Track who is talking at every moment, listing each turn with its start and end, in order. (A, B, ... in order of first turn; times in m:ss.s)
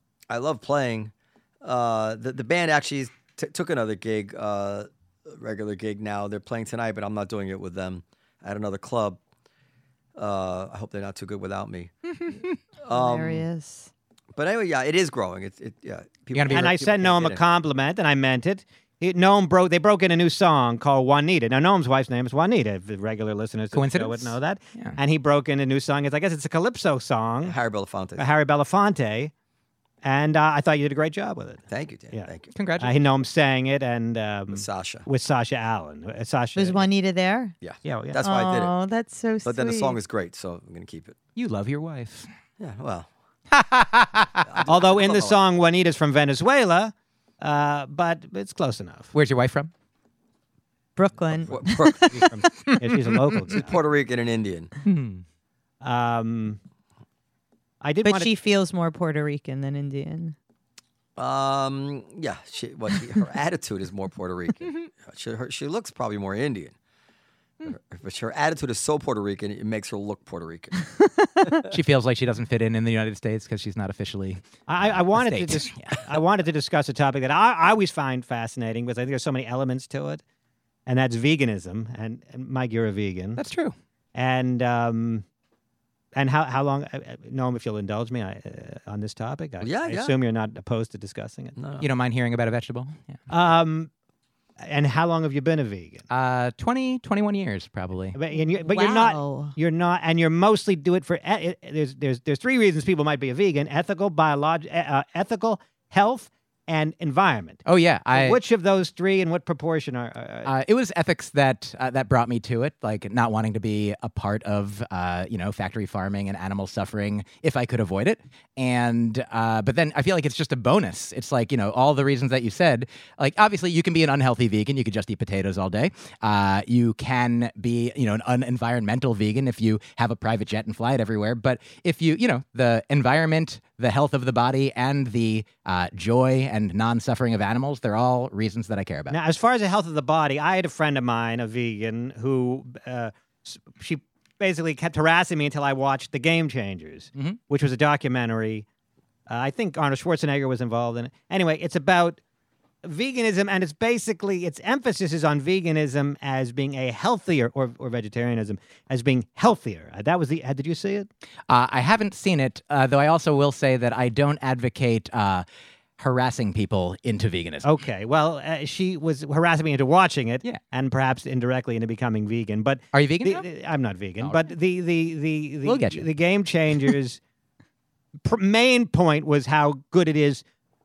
0:00.3-0:09.2 A
0:10.2-0:11.9 A
0:12.8-0:13.4 A
0:12.9-0:13.9 B
0:14.4-0:17.4 A
0:16.3-0:16.7 C
0:16.5-0:27.6 D
0:23.7-0:25.0 C
0:27.4-0:28.3 A
0:28.2-0:29.3 D
0:30.0-0:32.3 D
0:31.7-0:32.5 A
0:32.5-0:32.9 C
0:32.8-0:36.9 D
0:34.5-0:35.1 A
0:36.6-0:37.6 B
0:37.6-0:38.7 A
0:37.8-0:38.2 D
0:38.2-0:40.0 B
0:39.4-0:41.2 A
0:41.4-0:42.3 C
0:42.6-0:43.1 A
0:43.5-0:44.4 C
0:44.4-0:45.4 A
0:44.6-0:49.1 D
0:49.1-0:49.7 C
0:51.0-0:52.8 B
0:51.5-0:52.1 A
0:52.1-0:53.8 D
0:53.5-0:54.7 A
0:54.8-0:55.2 C
0:55.8-0:56.6 D
0:57.8-0:58.3 D
0:58.0-1:00.4 B
1:01.2-1:06.7 A
1:07.6-1:10.7 A
1:11.7-1:16.0 C
1:14.7-1:20.2 D
1:20.9-1:23.4 D
1:23.4-1:23.8 C
1:24.2-1:25.2 D
1:26.2-1:31.6 D
1:29.6-1:30.1 A
1:31.6-1:31.9 A
1:31.8-1:33.2 C
1:33.3-1:33.9 D
1:34.6-1:36.0 D
1:36.1-1:38.2 C
1:38.2-1:50.5 D
1:38.6-1:39.6 B
1:47.7-1:48.4 C
1:50.4-2:19.2 C
2:19.1-2:28.7 D
2:29.3-2:32.2 D
2:32.8-2:41.1 D
2:41.5-2:45.4 C
2:46.0-2:47.7 C
2:47.6-2:57.2 D
2:52.9-2:53.5 C
2:55.6-2:56.1 C
2:58.2-3:00.4 D